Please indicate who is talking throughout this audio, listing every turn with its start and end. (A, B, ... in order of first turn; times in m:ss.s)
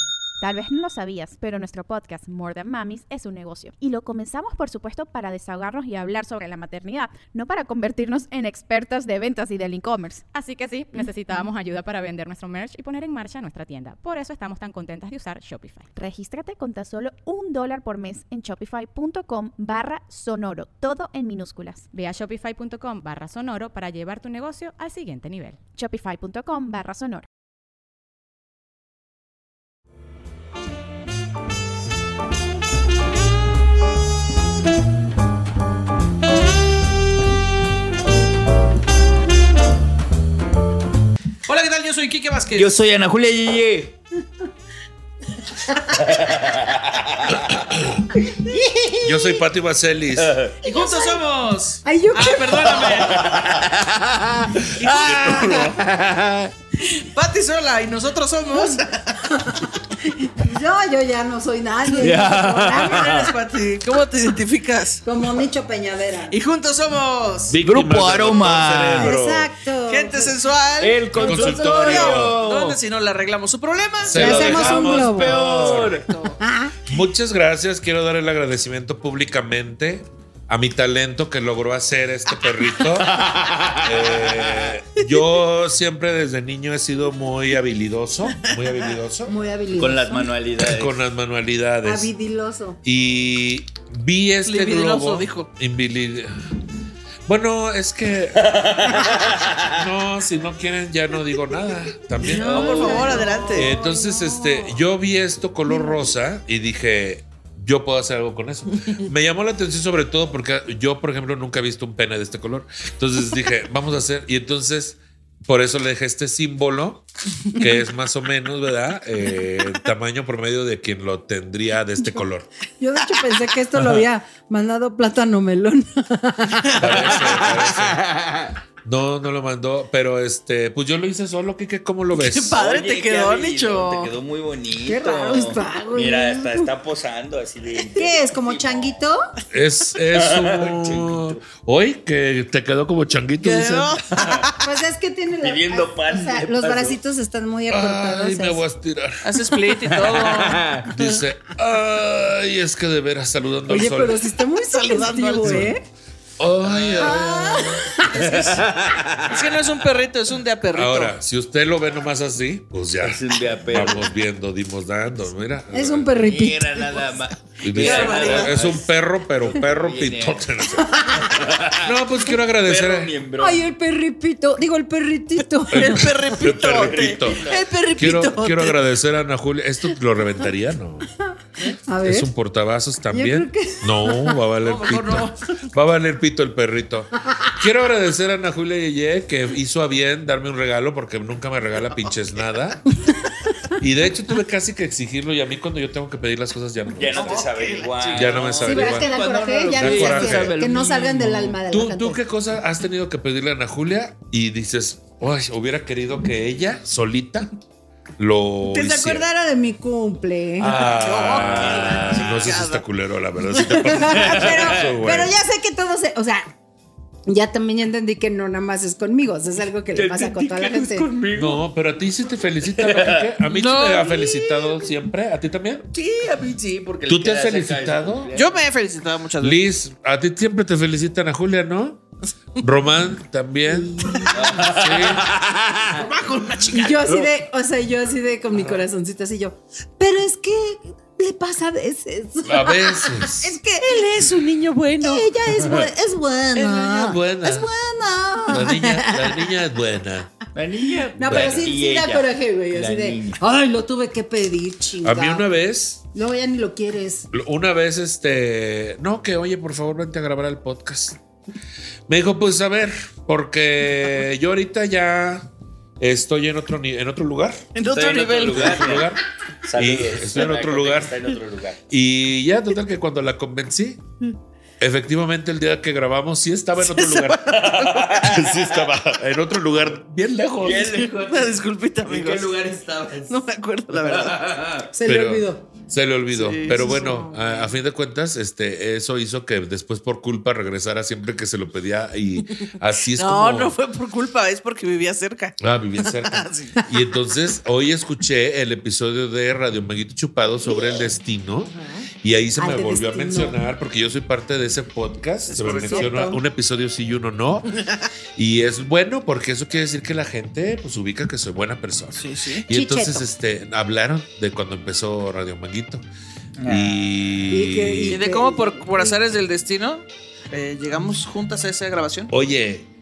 0:00.4-0:10.2 A
0:10.3-0:15.9 B
0:16.0-0:21.9 A
0:21.9-0:25.6 B
0:25.8-0:27.2 A
0:41.5-0:42.7 C
0:42.6-0:44.0 D
0:46.0-0:47.3 D
0:47.4-0:48.1 E
0:48.3-0:49.4 F
0:49.0-0:50.4 E
0:50.2-0:50.5 D
0:50.6-0:51.2 F
0:50.6-0:53.3 C
0:51.8-0:53.2 F
0:53.1-0:54.1 D
0:54.8-0:55.7 C
0:55.0-0:56.5 D
0:55.1-0:55.5 E
0:55.2-0:55.8 F
0:57.0-0:59.3 C
0:58.5-1:03.2 F
1:02.0-1:03.3 D
1:02.7-1:05.0 C
1:05.0-1:06.4 F
1:06.3-1:07.6 C
1:07.4-1:09.5 E
1:07.6-1:09.1 D
1:08.9-1:10.4 F
1:09.9-1:11.3 C
1:10.8-1:12.8 D
1:11.2-1:12.4 F
1:11.2-1:12.4 E
1:11.9-1:16.4 C
1:14.0-1:16.0 E
1:14.1-1:15.4 F
1:14.4-1:16.1 D
1:16.4-1:16.8 F
1:16.9-1:23.3 E
1:23.0-1:24.7 D
1:23.8-1:29.3 E
1:29.3-1:30.3 F
1:29.8-1:31.0 D
1:30.6-1:32.1 E
1:31.8-1:32.8 F
1:32.8-1:36.3 E
1:34.4-1:35.5 C
1:37.3-1:38.9 E
1:38.4-1:39.8 D
1:38.8-1:39.3 F
1:39.7-2:02.5 E
1:42.2-1:44.8 F
1:42.4-1:43.3 D
1:42.4-1:43.8 C
1:45.7-1:46.2 F
2:02.0-2:02.3 F
2:02.8-2:07.2 F
2:06.8-2:08.1 E
2:07.2-2:08.6 D
2:08.8-2:12.6 E
2:12.2-2:14.1 C
2:12.5-2:19.0 D
2:14.8-2:16.7 F
2:17.9-2:19.3 F
2:19.5-2:24.0 E
2:20.1-2:21.4 D
2:23.4-2:24.7 C
2:24.2-2:24.5 D
2:24.6-2:28.6 F
2:25.4-2:27.0 D
2:27.7-2:29.2 E
2:29.2-2:30.8 C
2:29.9-2:30.9 D
2:30.9-2:34.2 E
2:33.7-2:35.8 F
2:34.7-2:35.7 C
2:35.4-2:35.7 E
2:36.4-2:37.7 E
2:36.6-2:37.5 D
2:37.0-2:38.6 F
2:38.0-2:39.7 D
2:39.3-2:41.2 C
2:40.8-2:46.2 E
2:43.0-2:44.1 D
2:45.7-2:47.1 F
2:46.2-2:48.9 D
2:47.6-2:51.0 E
2:47.8-2:48.6 C
2:47.8-2:48.5 F
2:49.5-2:50.5 D
2:50.7-2:51.5 F
2:51.3-2:52.0 D
2:51.8-2:53.1 E
2:52.6-2:53.7 D
2:53.4-2:56.1 F
2:55.6-2:58.8 C
2:55.7-3:01.1 E
2:56.6-2:57.7 D
3:01.9-3:02.3 F
3:02.0-3:12.9 E
3:03.1-3:04.4 F
3:04.6-3:05.4 C
3:13.8-3:19.1 E
3:16.9-3:21.6 D
3:17.2-3:18.5 C
3:18.6-3:22.2 F
3:19.8-3:20.6 E
3:21.7-3:27.5 E
3:28.2-3:29.3 E
3:28.6-3:30.9 F
3:30.6-3:35.3 E
3:30.6-3:32.8 C
3:31.4-3:31.9 D
3:31.7-3:32.2 F
3:33.6-3:36.5 F
3:34.2-3:34.9 D
3:37.3-3:41.1 F
3:40.0-3:41.6 D
3:41.3-3:45.9 E
3:42.8-3:43.3 D
3:43.5-3:44.8 C
3:45.9-3:48.6 D
3:47.1-3:48.3 E
3:48.4-3:49.6 C
3:49.4-3:52.0 E
3:52.6-3:53.9 E
3:53.7-3:54.6 F
3:54.3-3:56.1 D
3:54.5-3:55.2 E
3:56.0-3:57.1 C
3:56.8-4:04.1 F
4:02.5-4:03.5 E
4:03.8-4:05.2 C
4:05.0-4:09.6 F
4:06.6-4:06.9 C
4:06.9-4:07.7 E
4:08.5-4:10.4 E
4:10.6-4:13.4 D
4:11.2-4:15.5 F
4:11.3-4:11.7 E
4:15.0-4:16.0 E
4:16.1-4:17.3 F
4:17.3-4:21.2 E
4:22.1-4:25.5 E
4:26.0-4:27.6 E
4:27.8-4:29.0 C
4:27.9-4:31.8 D
4:28.5-4:29.2 E
4:29.8-4:31.3 E
4:31.9-4:34.0 E
4:34.8-4:41.0 E
4:36.8-4:38.1 C
4:37.7-4:38.8 D
4:40.6-4:41.5 D
4:41.0-4:42.6 C
4:42.0-4:43.3 D
4:43.3-4:44.4 C
4:43.9-4:44.9 D
4:44.9-4:45.7 F
4:45.0-4:53.7 E
4:46.3-4:47.0 C
4:46.7-4:47.8 F
4:53.2-4:56.8 C
4:55.6-5:01.7 E
5:02.2-5:07.8 E
5:02.6-5:03.6 F
5:05.5-5:06.4 C
5:05.8-5:06.4 F
5:08.4-5:16.0 E
5:12.2-5:12.6 C
5:12.7-5:13.3 F
5:16.6-5:17.1 D
5:16.7-5:18.2 E
5:17.5-5:19.2 F
5:18.1-5:22.3 C
5:22.3-5:22.9 E